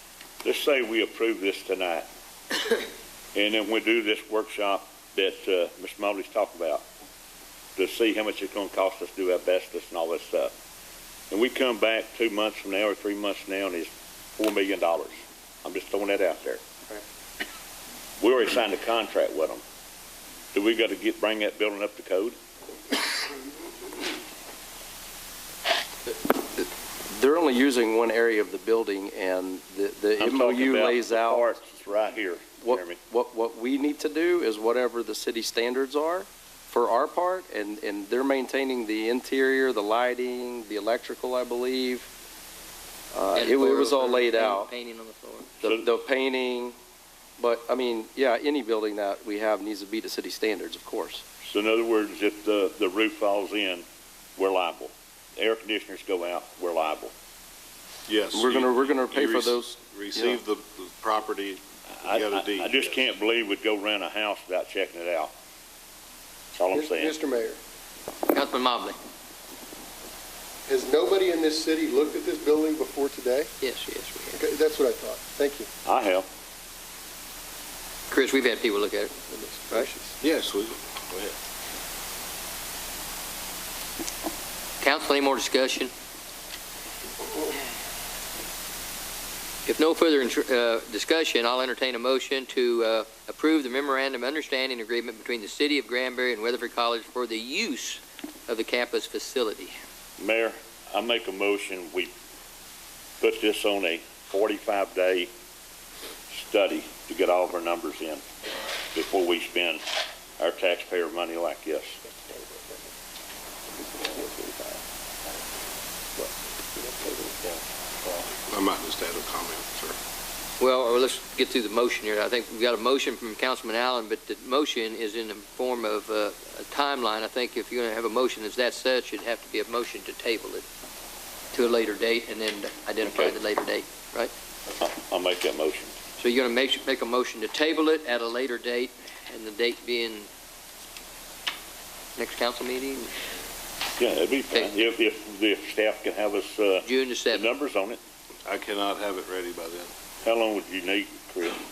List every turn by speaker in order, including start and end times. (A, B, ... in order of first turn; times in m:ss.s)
0:00.4-0:02.1 A
0:03.3-0:06.8 A
0:07.8-0:10.5 A
0:11.3-0:16.6 A
0:18.2-0:19.6 A
0:20.5-0:22.4 A
0:26.4-0:31.5 B
0:30.2-0:33.0 A
0:32.6-0:42.1 B
0:43.1-0:44.7 B
0:43.3-0:45.6 C
0:45.6-0:46.8 B
0:47.4-0:51.2 B
0:51.4-0:53.8 A
0:54.4-0:57.1 A
0:58.1-1:03.1 D
0:58.3-1:00.4 B
1:02.0-1:05.3 A
1:06.5-1:07.1 A
1:06.7-1:07.6 E
1:08.3-1:09.0 C
1:10.6-1:13.5 E
1:13.6-1:14.4 C
1:14.3-1:15.7 E
1:15.8-1:16.3 A
1:18.1-1:19.2 C
1:19.3-1:20.2 E
1:20.2-1:21.4 D
1:24.8-1:25.9 C
1:29.6-1:39.8 C
1:40.2-1:42.1 A
1:43.2-1:45.3 A
1:46.3-1:48.2 A
1:48.9-1:49.8 A
1:50.4-1:52.0 A
1:54.1-1:54.7 B
1:56.8-1:57.5 B
1:58.3-2:00.0 D
2:00.6-2:10.6 C
2:11.5-2:14.3 C
2:13.1-2:13.3 A
2:14.8-2:16.0 A
2:16.2-2:20.3 C
2:22.2-2:23.1 C
2:24.0-2:28.0 A
2:26.8-2:27.5 C
2:28.4-2:29.9 D
2:30.2-2:31.6 A